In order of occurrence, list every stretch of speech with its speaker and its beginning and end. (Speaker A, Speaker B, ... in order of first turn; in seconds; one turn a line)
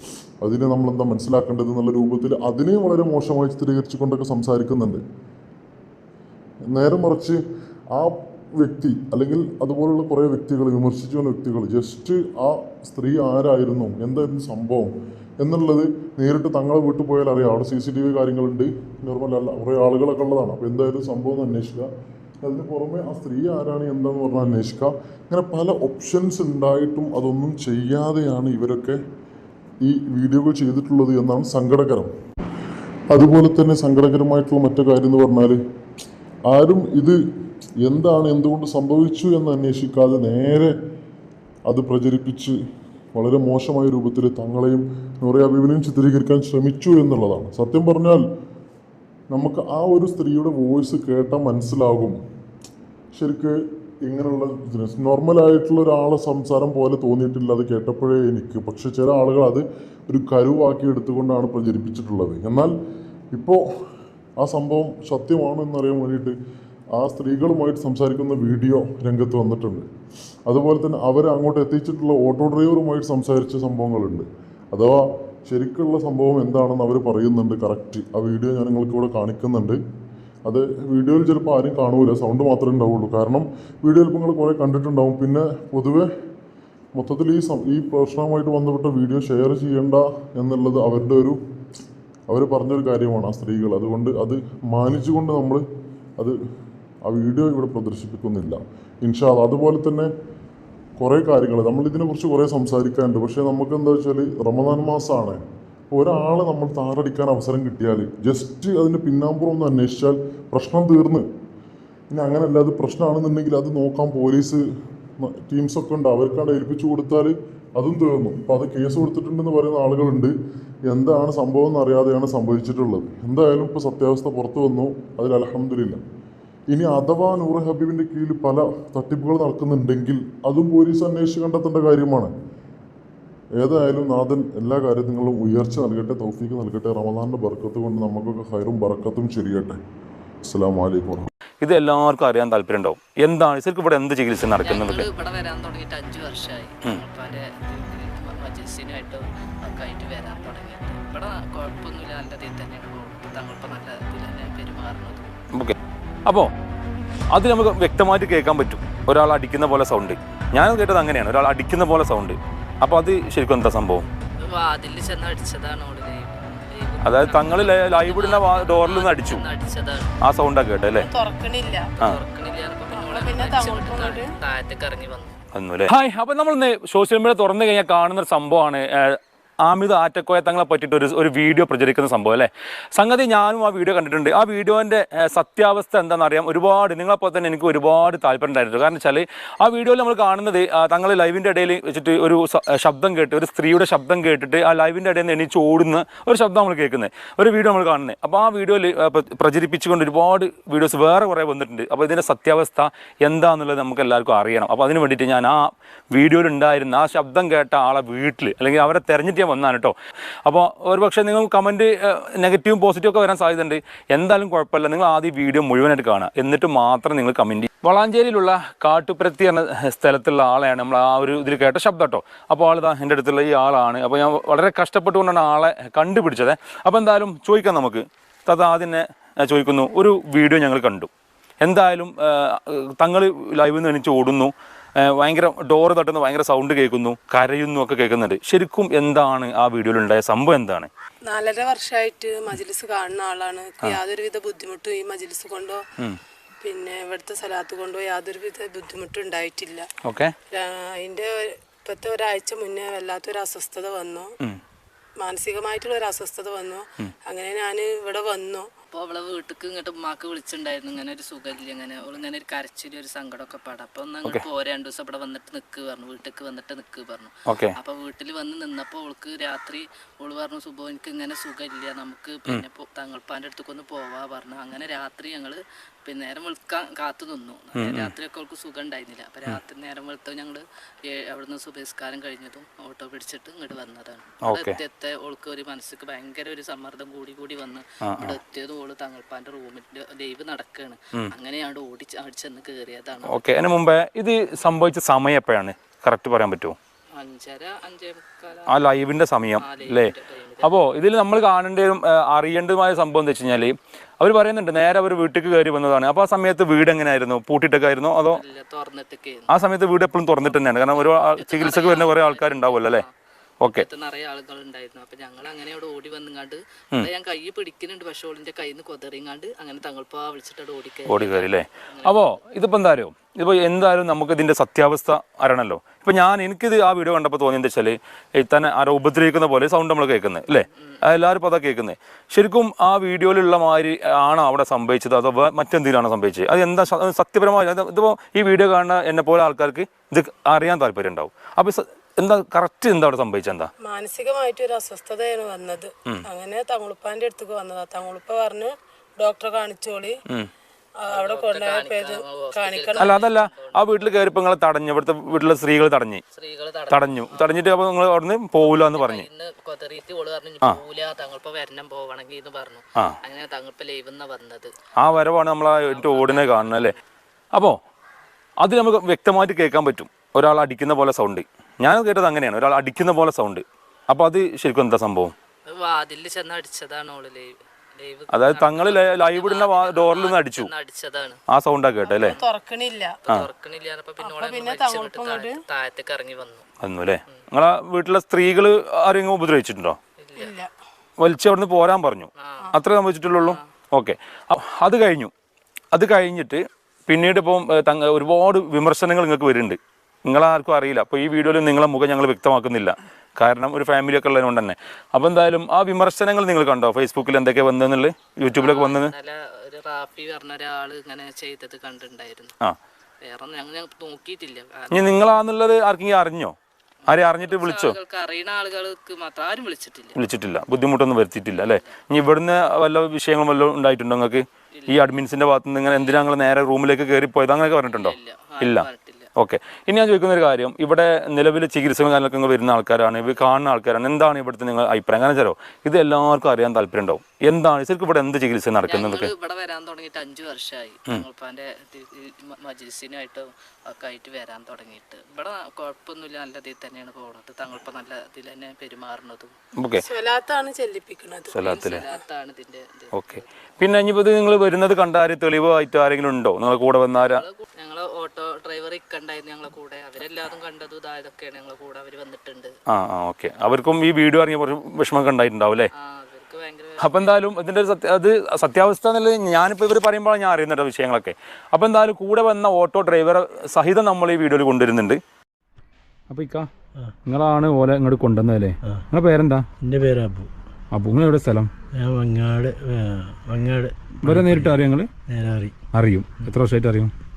Speaker A: 0.4-5.0
Speaker A: 6.7-7.4
Speaker A: 7.9-21.9
Speaker A: 22.4-29.0
Speaker A: 29.8-32.1
Speaker A: 33.1-35.6
Speaker A: 36.5-37.2
Speaker A: 37.8-40.7
Speaker A: 41.7-42.6
Speaker A: 43.1-48.2
Speaker A: 49.3-52.2
Speaker A: 53.1-62.7
Speaker A: 63.3-63.6
Speaker A: 64.4-66.3
Speaker A: 67.0-69.8
Speaker A: 70.5-79.8
Speaker A: 80.5-86.1
Speaker A: 87.0-91.4
Speaker A: 92.3-95.6
Speaker A: 97.0-100.1
Speaker A: 101.0-111.2
Speaker A: 112.1-114.6
Speaker A: 115.2-120.3
Speaker A: 120.9-126.0
Speaker A: 126.7-132.3
Speaker A: 133.6-139.8
Speaker A: 140.4-141.3
Speaker B: 141.6-145.1
Speaker C: 144.6-155.3
Speaker B: 155.5-156.5
Speaker B: 157.3-164.1
Speaker C: 164.5-170.1
Speaker B: 167.0-169.4
Speaker B: 170.2-171.1
Speaker D: 171.1-171.9
Speaker C: 172.0-175.3
Speaker D: 172.9-174.4
Speaker B: 175.5-231.1
Speaker B: 231.6-240.9
Speaker D: 241.2-245.8
Speaker D: 246.6-249.9
Speaker B: 250.1-250.3
Speaker D: 250.5-254.3
Speaker D: 255.2-258.7
Speaker C: 258.9-293.4
Speaker B: 267.5-267.7
Speaker B: 277.8-278.1
Speaker B: 284.4-284.8
Speaker B: 288.0-288.4
Speaker B: 293.2-296.8
Speaker C: 297.1-299.0
Speaker B: 298.7-308.4
Speaker C: 299.6-300.8
Speaker C: 308.3-309.5
Speaker B: 309.5-313.0
Speaker C: 310.5-313.1
Speaker B: 313.6-313.9
Speaker C: 313.7-322.3
Speaker B: 321.1-343.7
Speaker D: 343.8-350.2
Speaker D: 351.0-353.1
Speaker C: 351.1-354.2
Speaker B: 352.9-356.2
Speaker C: 356.3-357.6
Speaker B: 356.9-359.3
Speaker C: 358.6-364.7
Speaker B: 365.0-366.9
Speaker C: 365.9-367.0
Speaker B: 368.6-375.3
Speaker C: 375.7-381.4
Speaker B: 378.3-380.7
Speaker B: 381.5-382.4
Speaker C: 382.1-382.4
Speaker D: 382.3-383.2
Speaker C: 383.2-386.6
Speaker D: 384.2-385.6
Speaker B: 386.8-390.0
Speaker C: 390.2-390.5
Speaker D: 390.4-390.7
Speaker B: 391.2-395.3
Speaker C: 392.4-392.7
Speaker B: 395.9-409.1
Speaker C: 408.5-412.5
Speaker C: 413.2-415.2
Speaker B: 414.9-416.5
Speaker B: 417.1-418.0
Speaker C: 417.1-420.2
Speaker B: 420.2-439.3
Speaker C: 421.6-421.9
Speaker C: 424.8-425.1
Speaker C: 425.8-426.3
Speaker C: 427.9-429.3
Speaker C: 438.9-449.5
Speaker B: 449.8-450.0
Speaker D: 450.0-451.6
Speaker B: 451.5-452.0
Speaker C: 451.6-453.5
Speaker B: 453.1-457.4
Speaker C: 457.2-462.7
Speaker B: 462.9-465.9
Speaker C: 465.9-467.4
Speaker B: 467.0-475.2
Speaker B: 476.3-476.7
Speaker B: 477.2-479.6
Speaker E: 479.8-480.5
Speaker B: 480.9-481.7
Speaker E: 482.0-484.8
Speaker B: 484.2-485.1
Speaker E: 485.3-485.7
Speaker B: 485.9-487.1